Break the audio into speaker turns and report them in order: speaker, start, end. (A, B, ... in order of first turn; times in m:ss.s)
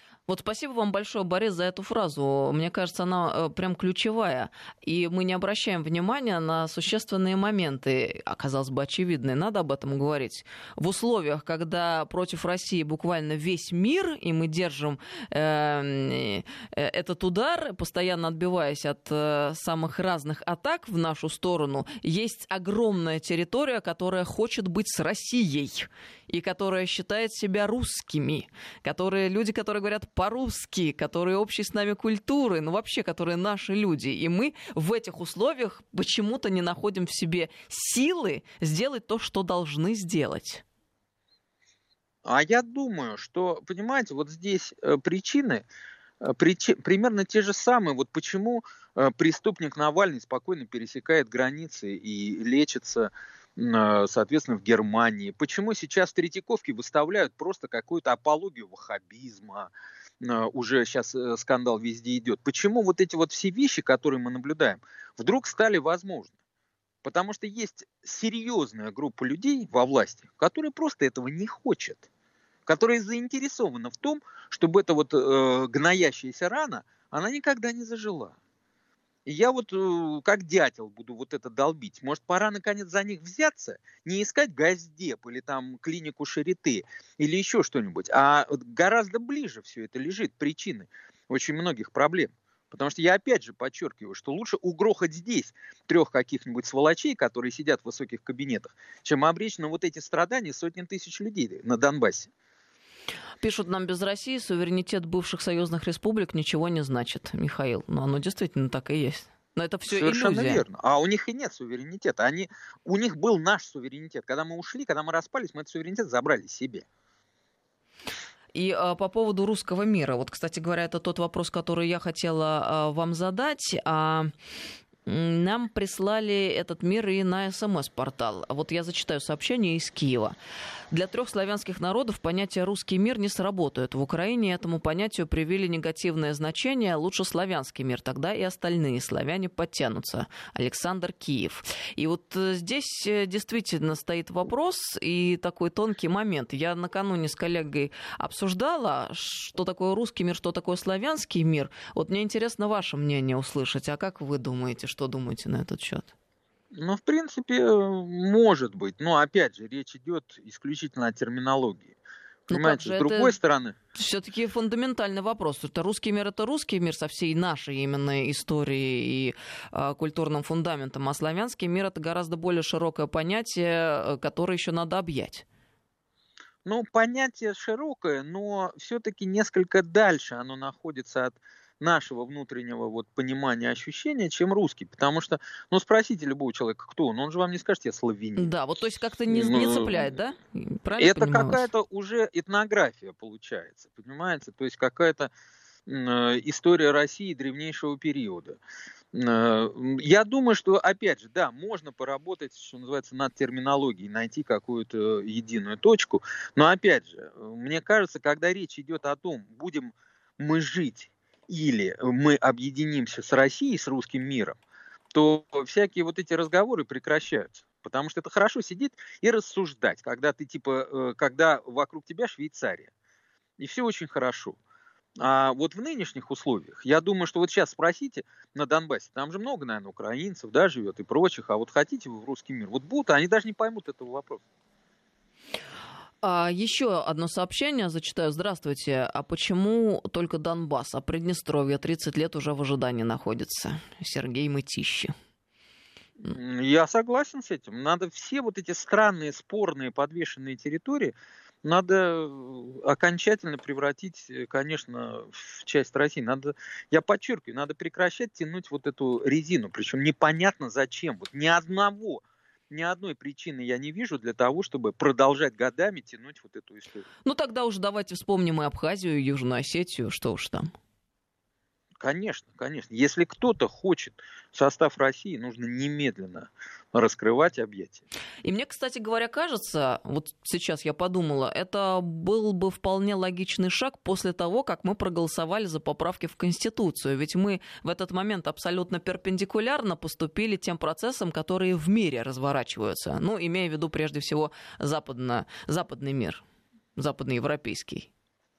0:00.3-0:40.6 A
0:42.2-0:45.6 B
0:46.2-1:06.3 B
1:07.0-1:12.0 B
1:12.7-1:18.4 B
1:19.2-1:42.3 B
1:43.4-1:50.6 A
1:49.9-1:56.8 B
1:58.5-2:04.3 A
2:05.0-2:10.3 A
2:10.9-2:36.1 A
2:36.7-2:42.0 B
2:42.5-2:43.8 B
2:42.5-2:43.3 A
2:43.9-2:55.4 A
2:56.6-3:08.5 B
3:08.4-3:11.7 A
3:09.3-3:10.0 B
3:11.0-3:15.3 B
3:15.9-3:18.6 B
3:19.1-3:34.6 B
3:35.1-3:42.9 B
3:43.6-3:44.6 B
3:45.2-3:54.4 B
3:56.2-4:05.1 A
4:06.2-4:27.0 B
4:27.2-4:30.7 A
4:32.0-4:38.0 B
4:38.4-4:56.4 A
4:57.0-4:58.1 A